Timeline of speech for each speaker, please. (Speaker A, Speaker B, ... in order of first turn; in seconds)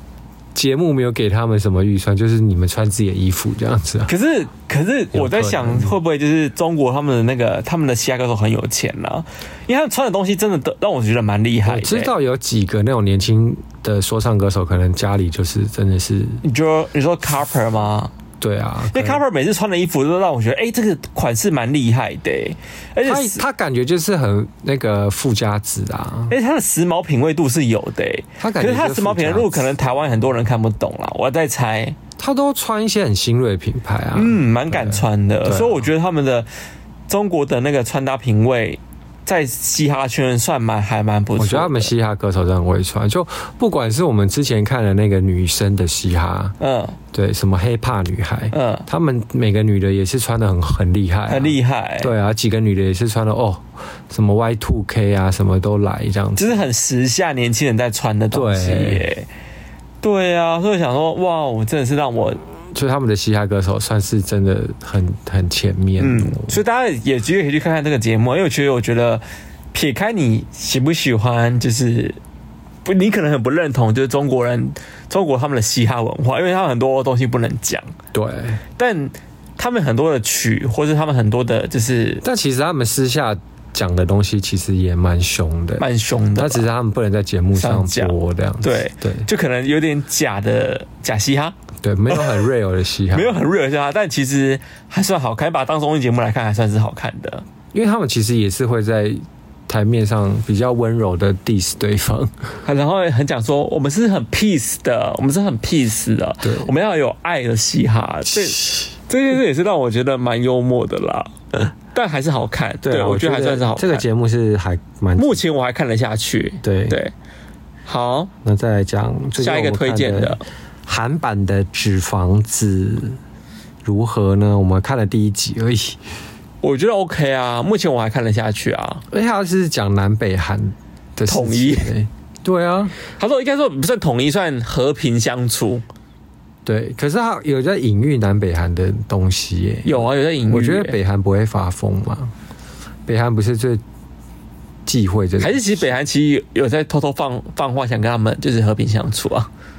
Speaker A: 0.5-4.1, 5.1-6.0, 11.7-16.4, 18.4-19.2, 23.0-26.3, 28.4-29.7, 32.2-35.9, 41.4-46.6, 47.1-56.6, 58.3-59.1, 62.7-66.6, 78.1-78.6, 82.2-89.3, 91.8-93.4, 97.7-102.3, 106.4-106.7, 108.3-108.9, 112.8-115.4, 116.6-117.0, 118.4-123.2, 123.8-126.0, 129.1-132.9, 136.7-142.3, 143.1-143.8, 144.9-145.6
Speaker B: 4.1-12.1, 16.4-18.1, 18.9-23.4, 26.3-32.0, 34.1-36.5, 37.1-41.9, 46.6-47.0, 48.5-48.9, 51.3-52.1, 56.4-59.3, 60.0-62.4, 66.0-72.2, 72.8-77.9, 78.8-82.2, 85.8-86.7, 87.6-91.6, 92.1-92.4, 93.1-97.5, 102.7-114.1, 115.2-117.1, 117.9-118.3, 119.4-120.4, 126.6-129.0, 131.3-131.9, 133.2-135.8, 139.8-141.0, 145.4-149.5